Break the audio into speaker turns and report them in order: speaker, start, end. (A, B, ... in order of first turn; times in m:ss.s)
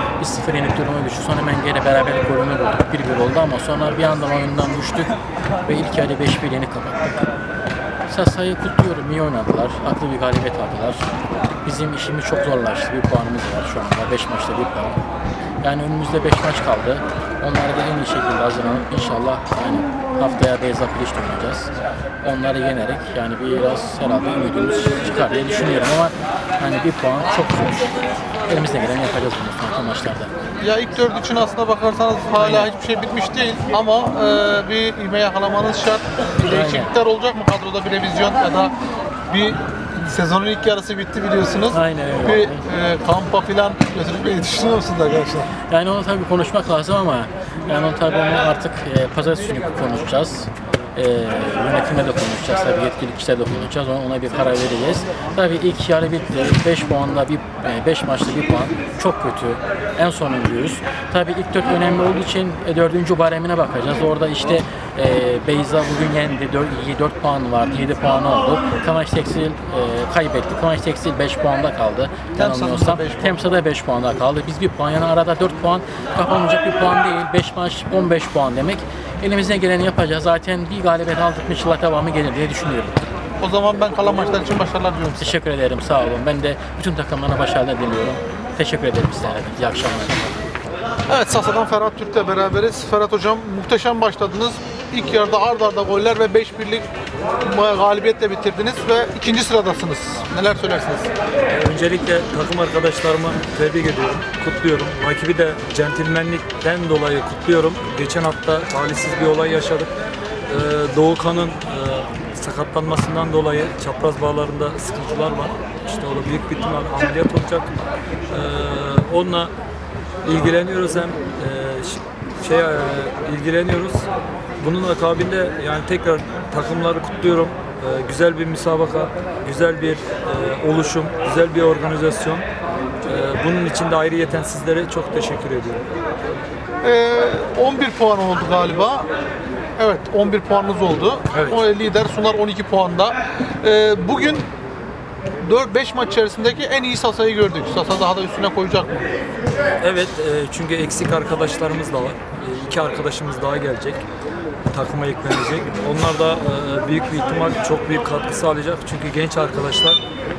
0:00.2-0:05.1 A
0:05.6-0:07.3 A
0:08.1-0:11.1 A
0:11.6-0:15.0 A
0:15.6-0:21.7 A
0:22.2-0:27.9 A
0:28.5-0:30.3 A
0:30.6-0:38.7 B
0:32.4-0:32.7 A
0:36.4-0:36.9 A
0:39.3-0:45.5 B
0:41.7-0:42.6 A
0:45.7-1:23.0 A
1:12.3-1:13.4 B
1:23.4-1:25.4 B
1:25.2-1:30.5 A
1:31.1-1:36.9 B
1:37.4-1:41.1 B
1:41.5-1:49.9 C
1:50.5-1:57.7 C
1:58.3-1:59.5 C
2:00.2-2:04.1 C
2:04.6-2:12.4 C
2:13.0-2:15.8 C
2:16.8-2:19.1 B
2:19.8-2:24.5 B
2:21.3-2:21.6 C
2:25.4-2:29.1 B
2:29.8-2:34.0 C
2:34.7-2:40.0 C